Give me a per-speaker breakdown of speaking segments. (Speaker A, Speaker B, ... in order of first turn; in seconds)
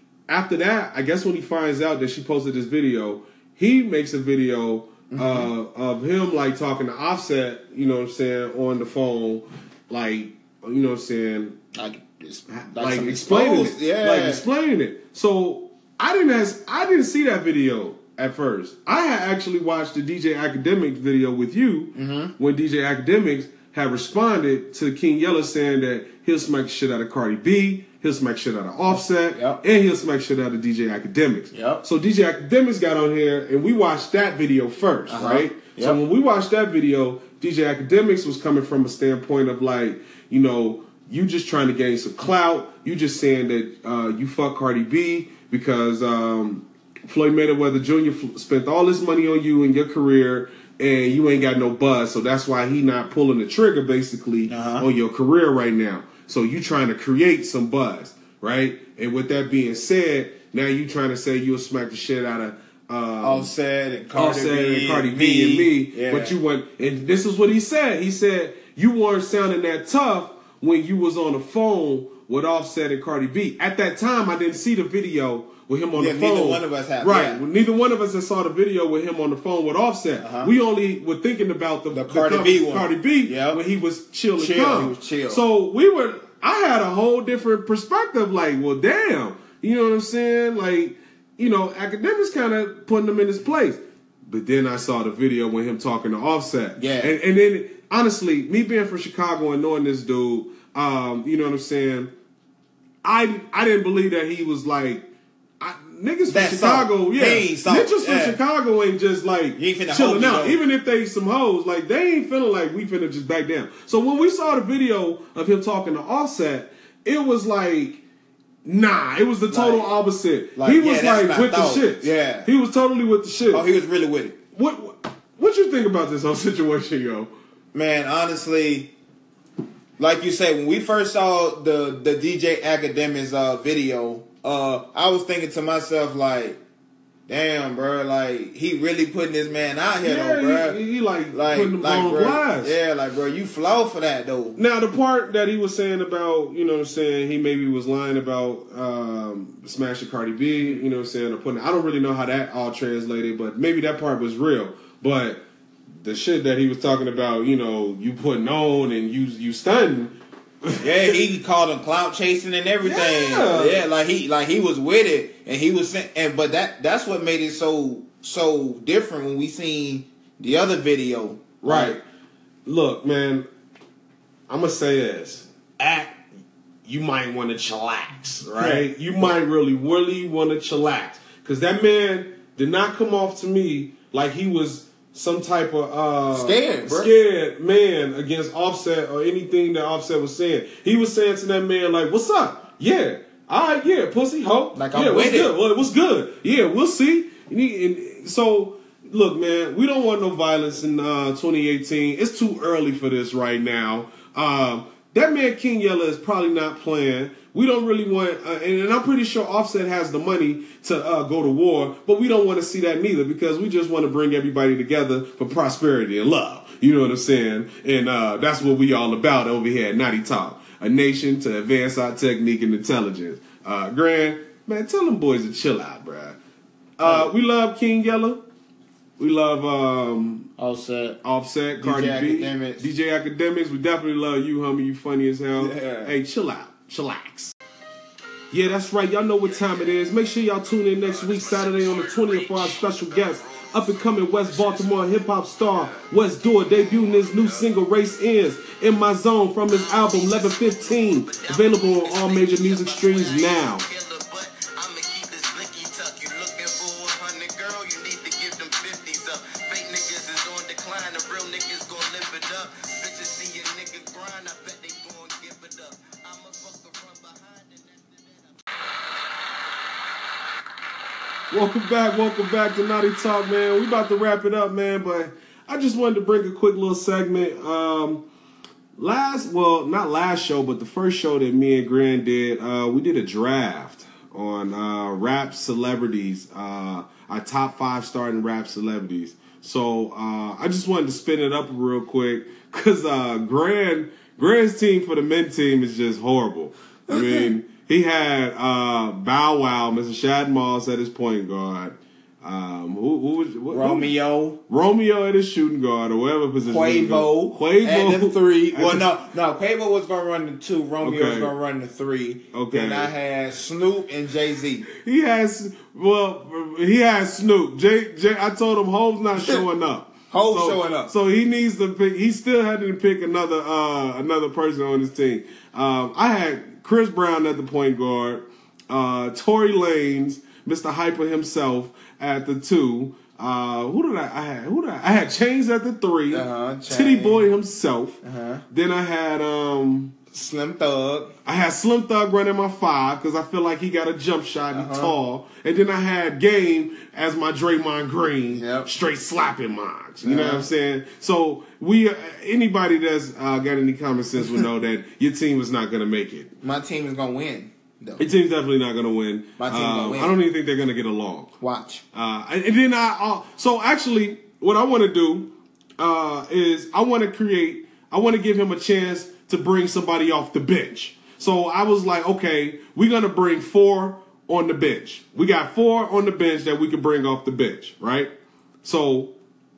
Speaker A: 0.3-11.6, 12.5-63.5, 64.1-102.1, 103.0-105.1, 105.6-118.0, 118.7-123.7, 124.5-127.3, 140.0-142.8, 144.6-155.4, 156.0-161.2, 162.8-163.8, 171.6-172.0, 172.7-173.5, 174.5-176.2, 176.9-226.4, 227.0-228.4, 229.2-230.5, 231.2-237.6, 238.5-253.8, 271.5-278.2, 279.0-304.1, 304.7-309.1, 311.0-311.5, 312.5-313.1, 314.9-340.1, 341.4-356.5, 358.2-361.5, 362.1-378.3, 378.8-379.3
Speaker B: 5.1-5.5, 11.8-14.4, 21.9-22.3, 28.9-29.6, 31.5-31.8, 35.1-36.0, 54.5-54.9, 63.2-66.3, 76.0-77.4, 80.2-80.5, 81.9-83.6, 84.4-85.4, 96.8-97.1, 106.3-108.4, 109.6-110.6, 119.5-119.9, 120.6-122.5, 123.5-124.4, 127.7-128.9, 130.0-136.6, 137.3-140.8, 141.3-144.6, 160.8-172.0, 178.5-178.8, 186.3-187.1, 194.7-195.5, 227.0-227.3, 230.6-231.2, 231.8-232.8, 235.6-236.1, 239.4-239.9, 241.0-245.1, 246.7-247.7, 249.7-268.5, 297.1-297.4, 303.7-304.6, 306.6-314.9, 320.3-321.1, 336.3-337.5, 338.2-338.6, 340.3-341.4, 344.7-345.1, 348.5-348.9, 350.2-350.7, 356.6-358.2, 359.6-360.4, 361.6-362.0